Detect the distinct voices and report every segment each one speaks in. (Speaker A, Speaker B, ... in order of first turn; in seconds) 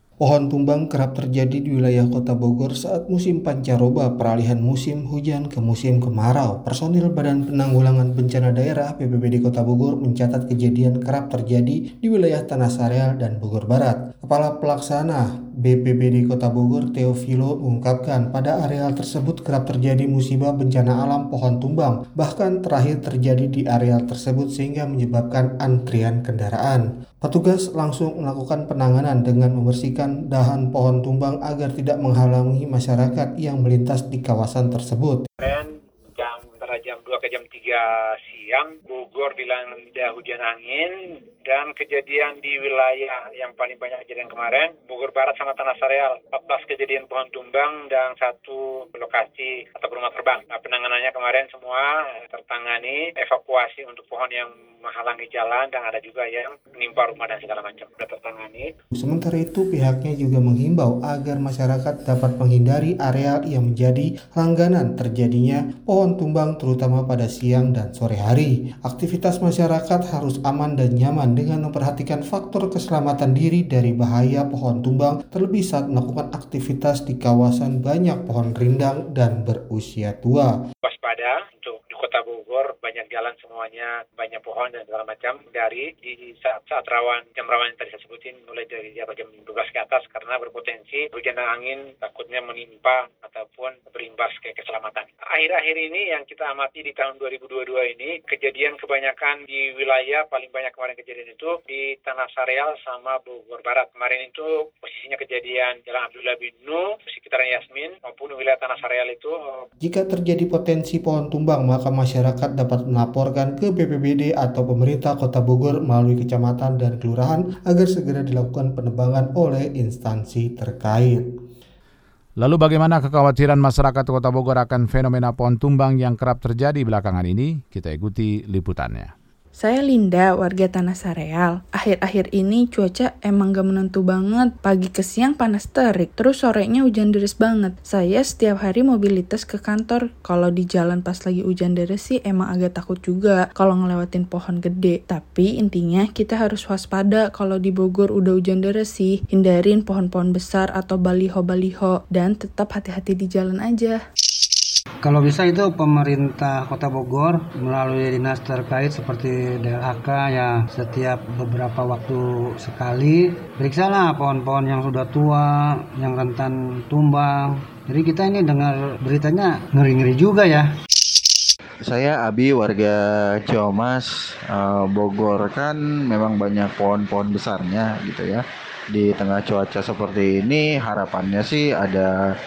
Speaker A: 0.2-35.2, 58.9-80.5, 109.8-121.2
Speaker B: 35.4-58.7, 80.8-109.6
Speaker C: 122.4-129.1
Speaker D: 129.6-154.0
Speaker E: 155.0-170.7
Speaker F: 171.8-182.1